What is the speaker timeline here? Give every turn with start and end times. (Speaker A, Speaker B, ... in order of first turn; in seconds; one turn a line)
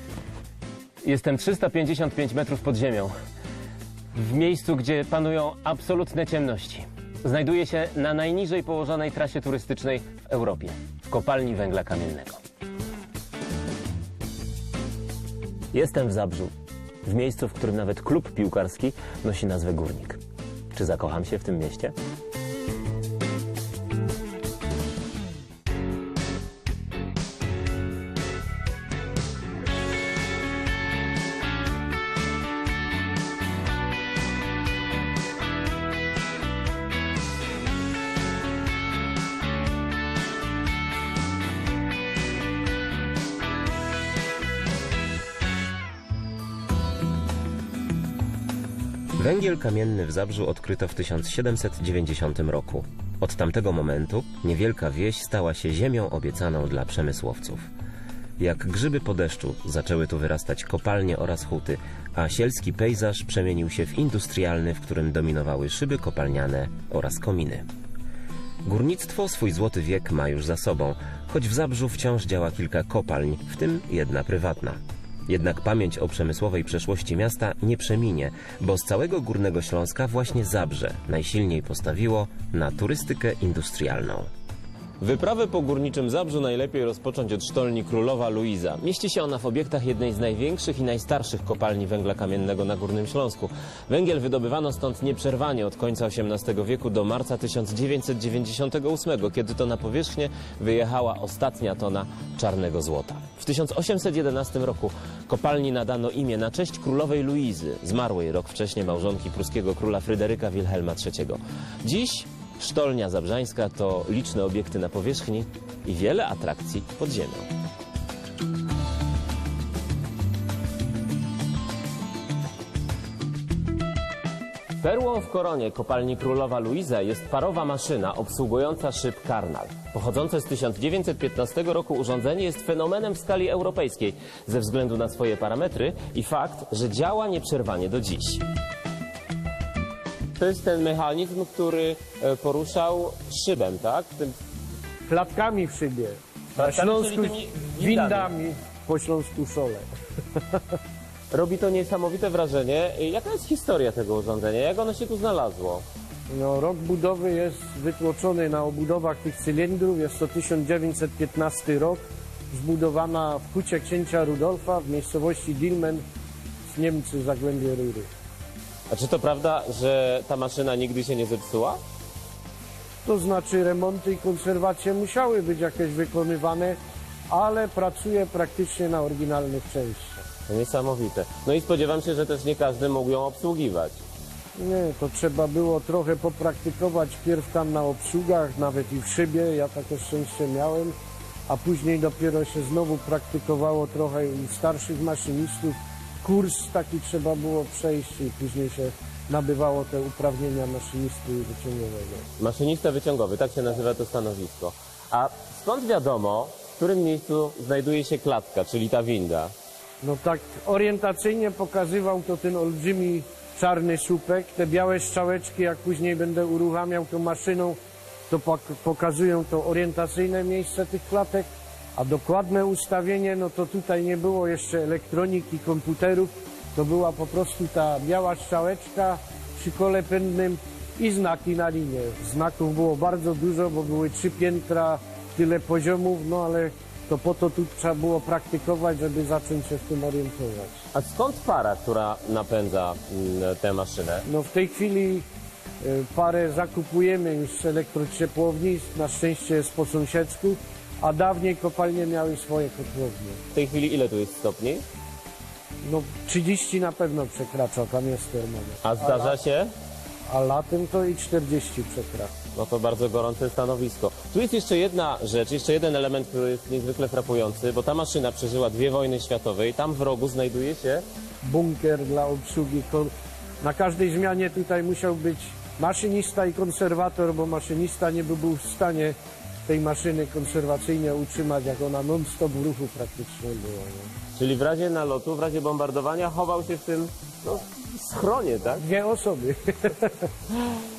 Speaker A: 1.0-3.1
Speaker A: 4.1-12.4
Speaker A: 15.7-20.2
Speaker A: 20.7-21.9
Speaker B: 49.2-57.7
Speaker B: 58.4-67.7
Speaker B: 68.6-84.3
Speaker A: 85.0-117.5
Speaker A: 124.8-138.4
Speaker A: 140.4-144.3
Speaker C: 145.1-150.6
Speaker A: 146.6-148.3
Speaker A: 151.3-155.8
Speaker C: 156.3-166.0
Speaker C: 166.7-168.1
Speaker A: 168.9-171.8
Speaker C: 173.0-176.8
Speaker C: 177.3-180.2
Speaker A: 180.5-184.0
Speaker C: 184.5-190.9
Speaker C: 191.5-202.2
Speaker A: 202.4-209.5
Speaker C: 210.0-240.8
Speaker A: 240.9-244.2
Speaker C: 244.3-245.3
Speaker C: 245.8-253.4
Speaker A: 253.5-254.8
Speaker C: 255.8-259.4
Speaker A: 258.8-259.7
Speaker C: 260.3-262.3
Speaker A: 262.5-271.1
Speaker C: 271.4-279.1
Speaker C: 279.7-284.1
Speaker A: 284.3-288.8
Speaker C: 288.8-290.3